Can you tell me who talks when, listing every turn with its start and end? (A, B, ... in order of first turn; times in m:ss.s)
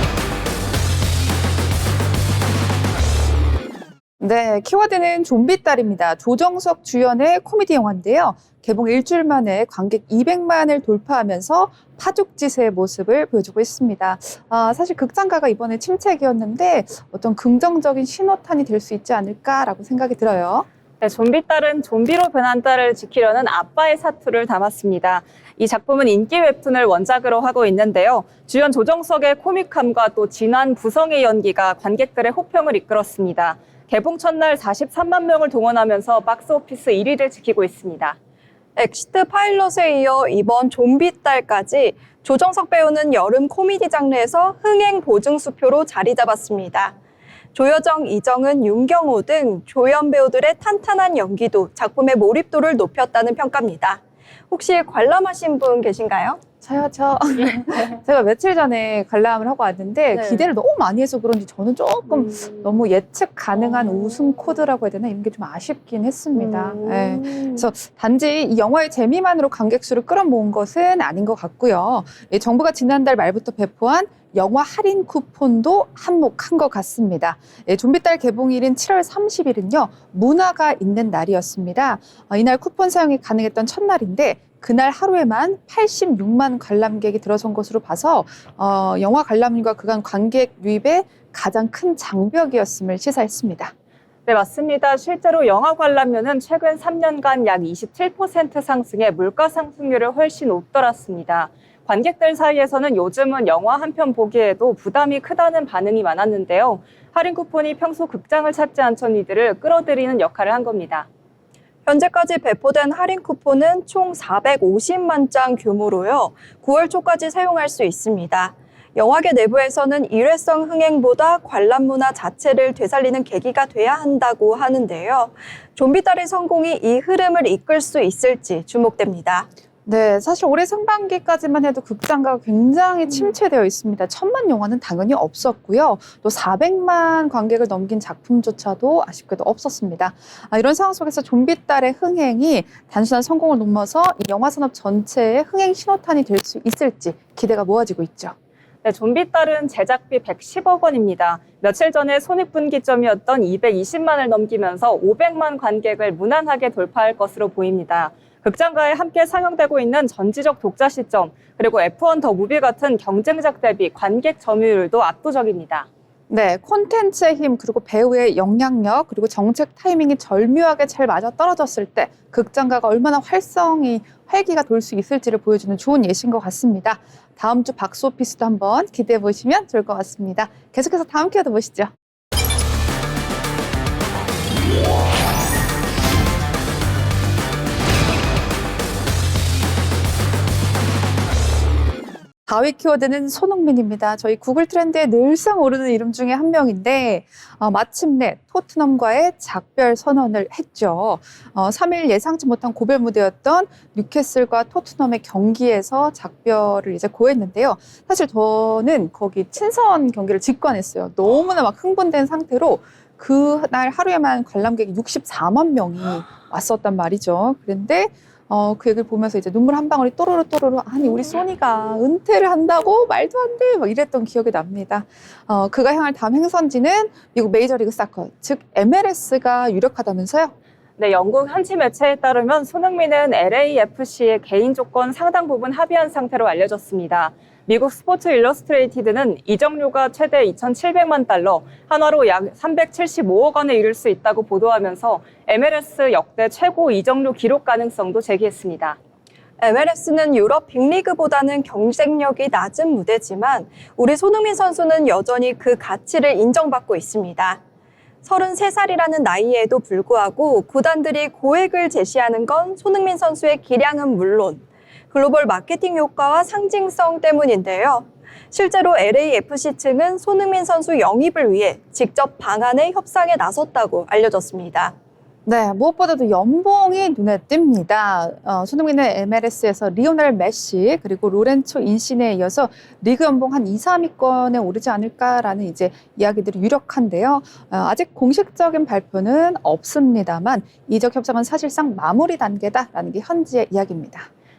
0:04.2-0:20.7 A
0:21.0-0:38.2 B
0:38.8-0:46.9 C
0:47.5-0:56.4 C
0:56.6-1:33.7 A
1:00.1-1:00.5 C
1:02.2-1:02.7 C
1:06.3-1:07.7 C
1:34.2-1:51.1 B
1:51.8-2:09.5 C
2:09.8-2:28.3 A
2:28.8-2:45.9 B
2:46.3-3:01.9 A
3:12.5-3:50.5 A
3:51.0-4:09.0 B
4:09.6-4:17.6 C
4:18.2-4:34.9 C
4:35.4-4:54.3 A